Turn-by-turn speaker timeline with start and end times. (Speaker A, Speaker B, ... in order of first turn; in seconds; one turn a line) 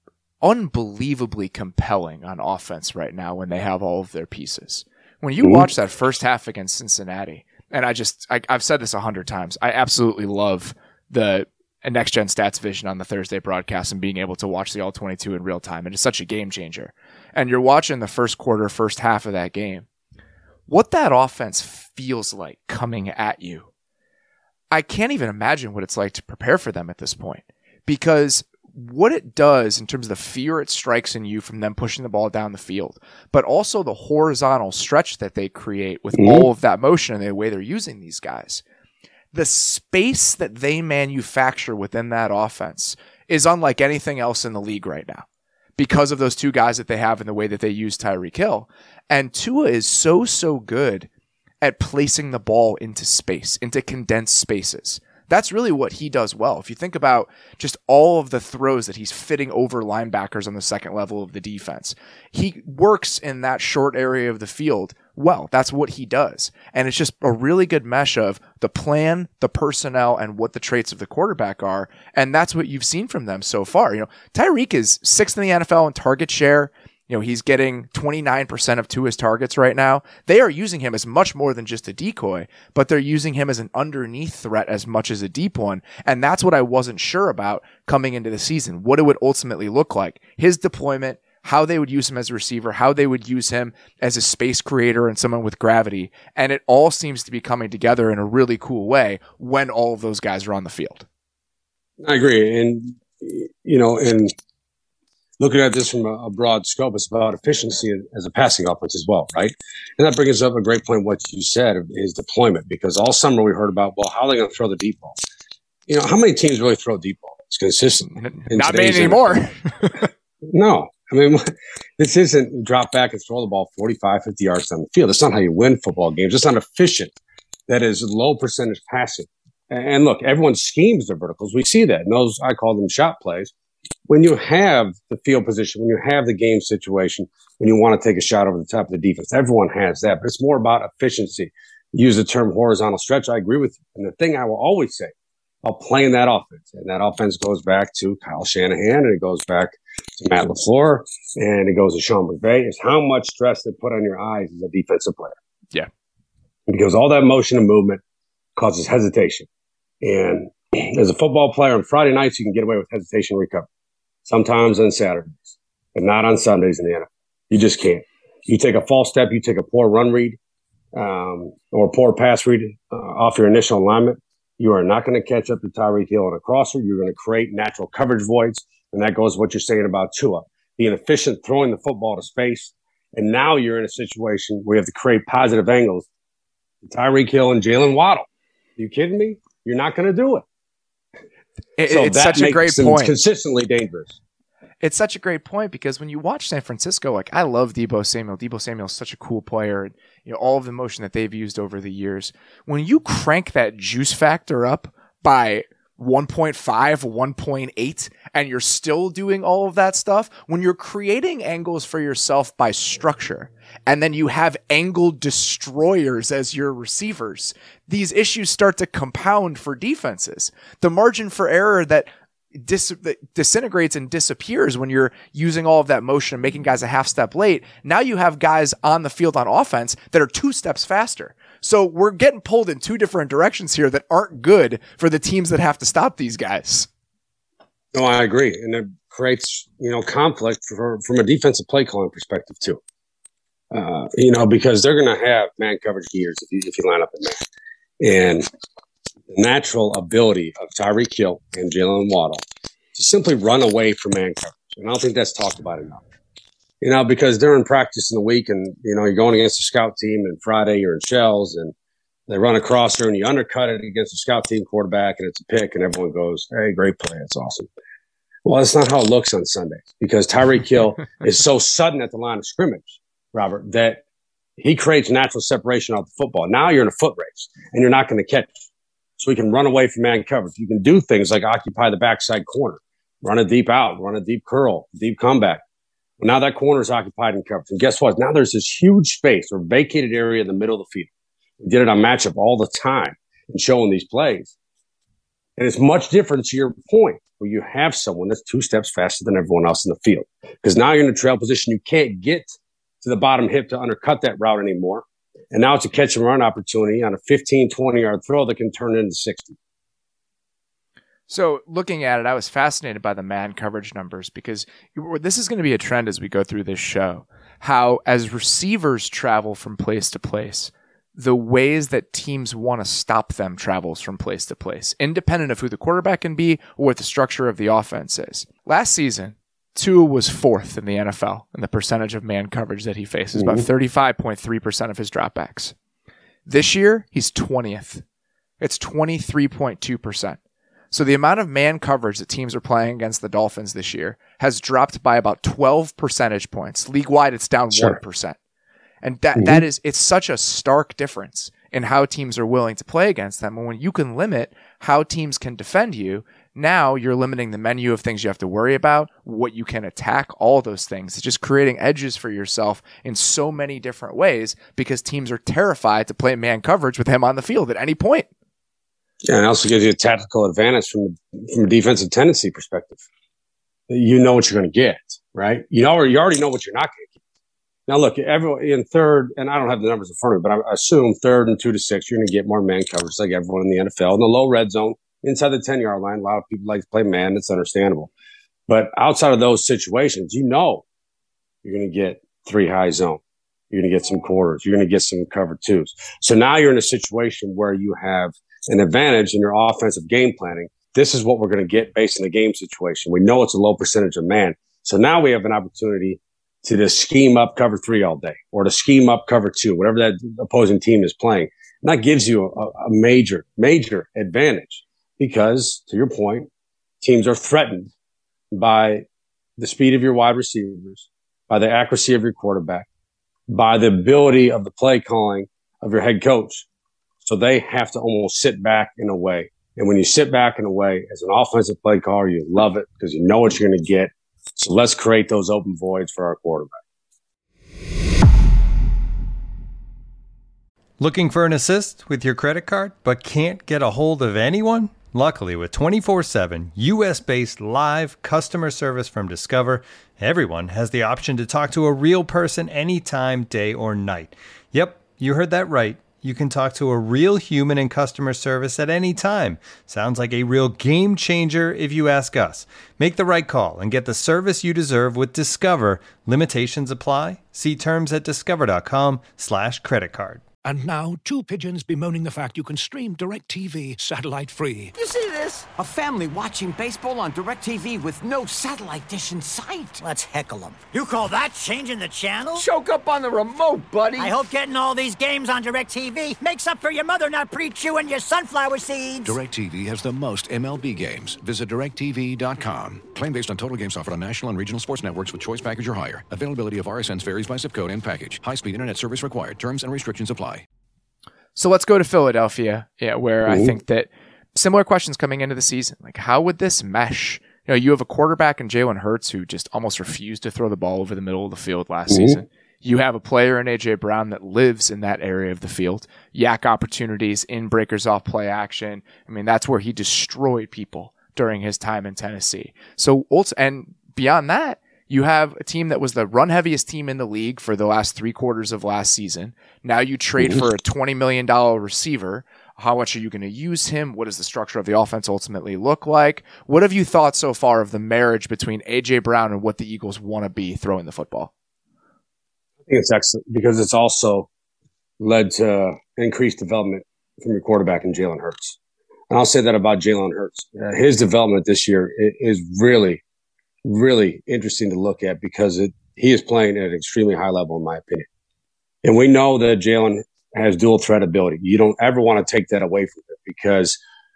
Speaker A: 0.4-19.9
Speaker B: 5.4-5.7
Speaker A: 20.7-23.7
Speaker A: 24.7-38.6
Speaker B: 36.2-36.5
Speaker A: 39.3-45.2
Speaker A: 45.8-51.1
Speaker A: 51.6-101.1
Speaker B: 102.0-104.3
Speaker B: 105.4-115.2
Speaker B: 115.9-119.5
Speaker A: 118.2-120.1
Speaker B: 120.5-127.1
Speaker B: 127.7-133.5
Speaker B: 134.1-145.1
Speaker B: 145.6-155.4
Speaker B: 156.7-158.0
Speaker B: 158.6-159.5
Speaker B: 160.0-163.7
Speaker B: 164.3-170.4
Speaker B: 170.9-186.1
Speaker B: 186.8-188.3
Speaker B: 188.8-190.4
Speaker A: 191.8-193.1
Speaker B: 191.9-194.1
Speaker A: 194.8-236.9
Speaker B: 237.9-242.8
Speaker B: 243.7-247.4
Speaker B: 248.0-248.5
Speaker B: 249.3-252.4
Speaker B: 252.9-256.0
Speaker B: 256.8-261.7
Speaker B: 262.3-267.7
Speaker B: 268.4-274.0
Speaker B: 274.6-278.6
Speaker B: 279.2-285.6
Speaker B: 286.2-291.1
Speaker B: 291.6-294.5
Speaker B: 295.6-302.5
Speaker B: 303.0-309.6
Speaker A: 311.3-335.7
Speaker B: 333.4-333.6
Speaker A: 336.5-338.0
Speaker A: 338.6-340.4
Speaker A: 340.9-348.4
Speaker B: 347.7-348.0
Speaker A: 349.0-368.3
Speaker B: 349.4-349.6
Speaker B: 369.3-373.0
Speaker B: 373.9-377.1
Speaker B: 377.9-388.1
Speaker B: 388.7-390.9
Speaker B: 391.6-416.5
Speaker B: 417.0-417.9
Speaker B: 418.5-419.1
Speaker B: 419.6-422.9
Speaker B: 423.5-426.6
Speaker B: 427.2-436.8
Speaker C: 441.0-470.4
Speaker D: 470.6-474.9
Speaker E: 474.9-480.1
Speaker F: 480.0-482.6
Speaker E: 482.5-484.4
Speaker F: 484.2-489.4
Speaker G: 489.2-500.6
Speaker A: 501.6-541.5
Speaker B: 503.5-503.7
Speaker B: 512.1-512.4
Speaker B: 542.9-544.5
Speaker B: 545.2-548.8
Speaker B: 549.3-553.2
Speaker B: 553.8-558.3
Speaker B: 559.0-564.0